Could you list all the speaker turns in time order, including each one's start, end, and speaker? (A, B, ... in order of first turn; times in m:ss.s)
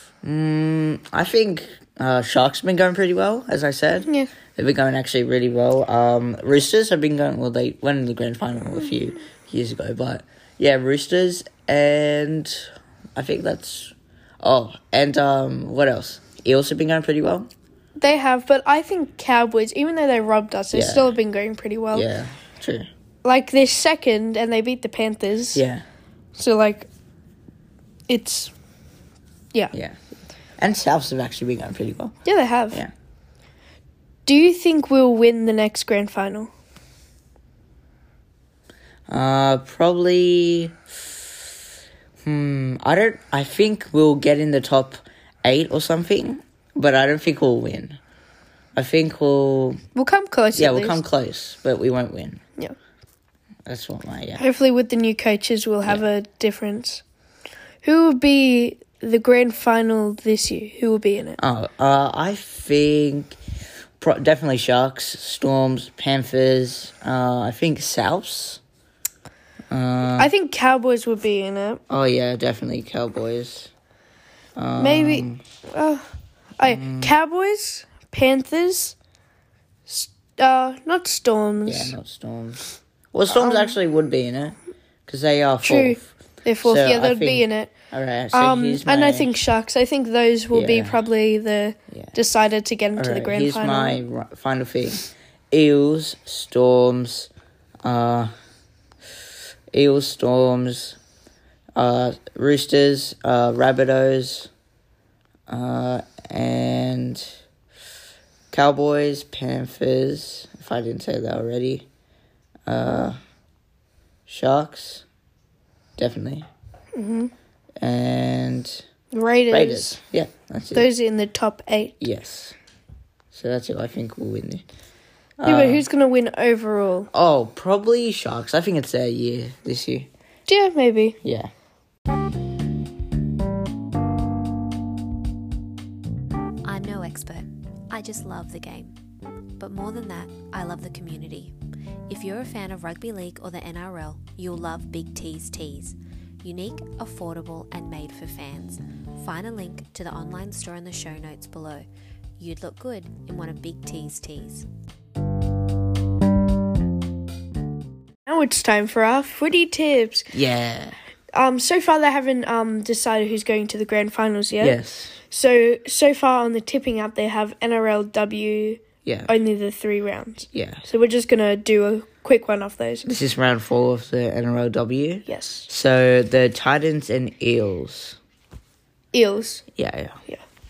0:00.2-0:17.5 A
0:18.0-0:22.1 B
0:20.7-0:21.1 A
0:21.9-0:22.9 A
0:23.2-0:25.6 B
0:25.5-0:25.8 A
0:26.4-0:26.9 B
0:28.1-0:28.5 B
0:29.7-0:30.0 A
0:30.6-0:32.2 A
0:32.2-0:32.8 B
0:34.2-0:36.5 B
0:39.1-0:41.5 A
0:42.2-0:48.0 A
0:48.7-0:49.8 A
0:49.9-0:51.0 B
0:50.5-0:52.4 A
0:53.6-0:54.4 A
0:54.4-0:57.0 B
0:57.8-1:01.4 B
1:01.4-1:03.4 A
1:04.0-1:08.6 A
1:09.7-1:10.3 A
1:10.1-1:11.8 B
1:11.9-1:13.7 A
1:14.6-1:15.4 A
1:14.8-1:18.9 B
1:16.6-1:17.1 A
1:19.9-1:21.9 B
1:21.6-1:29.3 A
1:23.4-1:23.7 B
1:25.6-1:27.7 B
1:28.3-1:34.0 B
1:30.5-1:31.0 A
1:31.9-1:32.2 A
1:33.0-1:37.3 A
1:37.8-1:38.3 A
1:39.7-1:41.0 A
1:41.8-1:44.5 A
1:45.5-1:47.3 A
1:48.5-1:51.9 A
1:52.7-1:53.2 A
1:54.3-1:55.0 A
1:56.0-1:56.5 A
1:56.9-1:57.3 B
1:57.8-1:58.8 A
1:59.1-2:00.0 B
1:59.5-2:00.9 A
2:00.7-2:02.0 B
2:02.0-2:02.5 A
2:03.3-2:04.6 A
2:05.4-2:05.8 A
2:05.4-2:07.1 B
2:07.1-2:10.1 A
2:10.5-2:11.2 B
2:11.2-2:11.5 A
2:16.6-2:18.9 C
2:19.6-2:21.5 C
2:22.1-2:31.9 C
2:32.4-2:34.7 C
2:38.2-2:40.3 B
2:40.3-2:41.0 A
2:41.3-2:44.8 B
2:44.6-2:45.2 A
2:45.3-2:53.1 B
2:49.0-2:49.3 A
2:50.5-2:50.8 A
2:53.0-2:58.2 A
2:55.2-2:55.7 B
2:59.1-2:59.6 B
2:59.8-3:00.2 A